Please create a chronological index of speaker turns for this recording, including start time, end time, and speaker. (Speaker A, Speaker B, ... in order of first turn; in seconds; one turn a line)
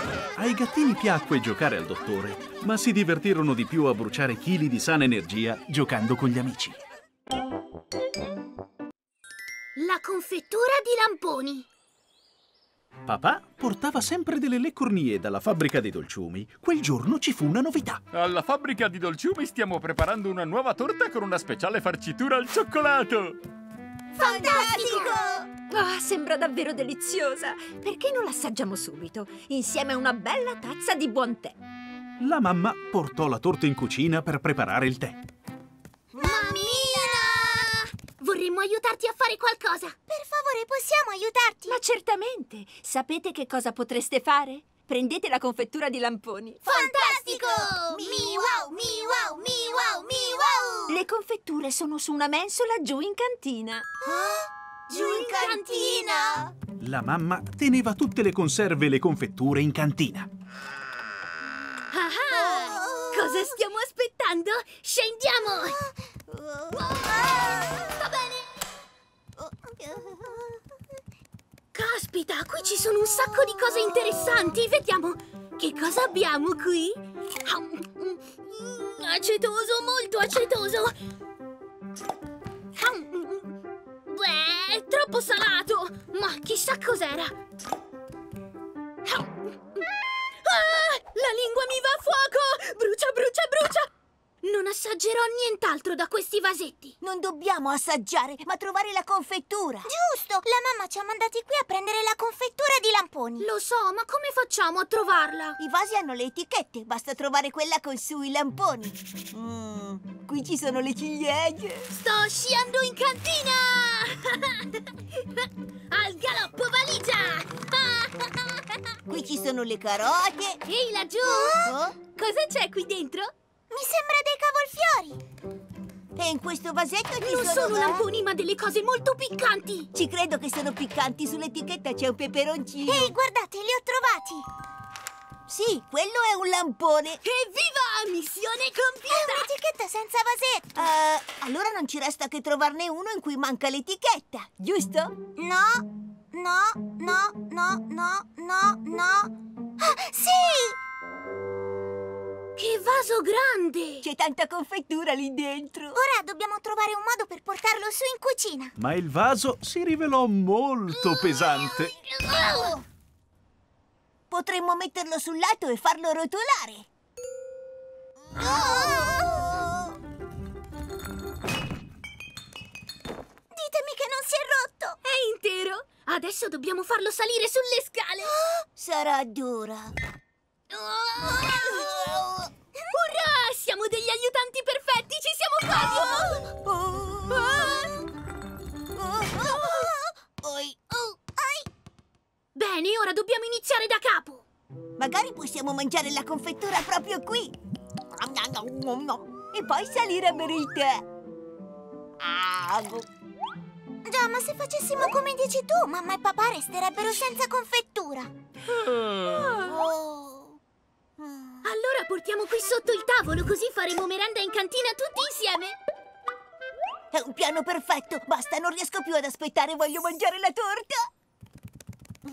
Speaker A: 0.4-6.8
Speaker B: 9.8-11.7
Speaker A: 13.1-18.0
Speaker C: 18.1-23.4
Speaker D: 24.2-25.5
Speaker E: 24.2-25.1
Speaker B: 24.9-25.1
Speaker F: 25.7-31.6
Speaker A: 32.2-35.2
Speaker B: 36.2-40.0
Speaker D: 36.2-37.1
Speaker E: 36.2-37.6
Speaker E: 40.1-41.8
Speaker F: 41.7-46.6
Speaker E: 46.6-51.0
Speaker D: 46.7-49.2
Speaker F: 50.9-53.9
Speaker E: 54.0-56.4
Speaker D: 54.9-56.2
Speaker B: 54.9-56.5
Speaker A: 56.8-60.3
Speaker B: 61.9-65.8
Speaker D: 62.3-63.4
Speaker D: 66.3-67.8
Speaker B: 66.9-67.4
Speaker B: 68.0-68.4
Speaker D: 69.4-70.5
Speaker B: 71.7-80.9
Speaker B: 82.8-83.6
Speaker B: 84.1-87.3
Speaker B: 89.1-89.8
Speaker B: 90.4-93.9
Speaker B: 94.4-97.0
Speaker D: 97.0-99.9
Speaker E: 99.8-103.5
Speaker B: 103.4-105.6
Speaker D: 105.6-111.9
Speaker B: 111.9-118.8
Speaker D: 119.1-120.6
Speaker B: 120.7-123.3
Speaker D: 121.3-122.0
Speaker E: 123.7-125.2
Speaker D: 126.2-128.1
Speaker B: 127.2-129.9
Speaker D: 129.9-133.2
Speaker E: 132.8-134.5
Speaker D: 135.5-137.2
Speaker B: 137.2-139.5
Speaker E: 139.1-140.7
Speaker D: 140.7-145.2
Speaker E: 145.4-150.8
Speaker B: 152.6-154.1
Speaker D: 154.0-156.0
Speaker E: 155.9-158.7
Speaker A: 158.8-161.9
Speaker B: 162.0-162.8
Speaker D: 162.3-162.8
Speaker D: 164.3-166.9
Speaker D: 168.3-170.0
Speaker E: 168.4-169.3
Speaker E: 173.5-175.0
Speaker B: 175.0-178.4
Speaker D: 178.8-179.9
Speaker B: 180.7-181.8
Speaker D: 181.3-182.5
Speaker B: 182.9-186.5
Speaker D: 185.7-187.9
Speaker B: 187.3-187.9
Speaker D: 188.9-191.6
Speaker B: 192.6-194.4
Speaker D: 195.0-197.5
Speaker D: 198.1-201.0
Speaker D: 202.2-203.1
Speaker E: 204.1-208.3
Speaker C: 208.7-209.6
Speaker D: 209.6-210.6
Speaker D: 211.2-211.6
Speaker B: 211.6-215.8
Speaker D: 217.1-221.1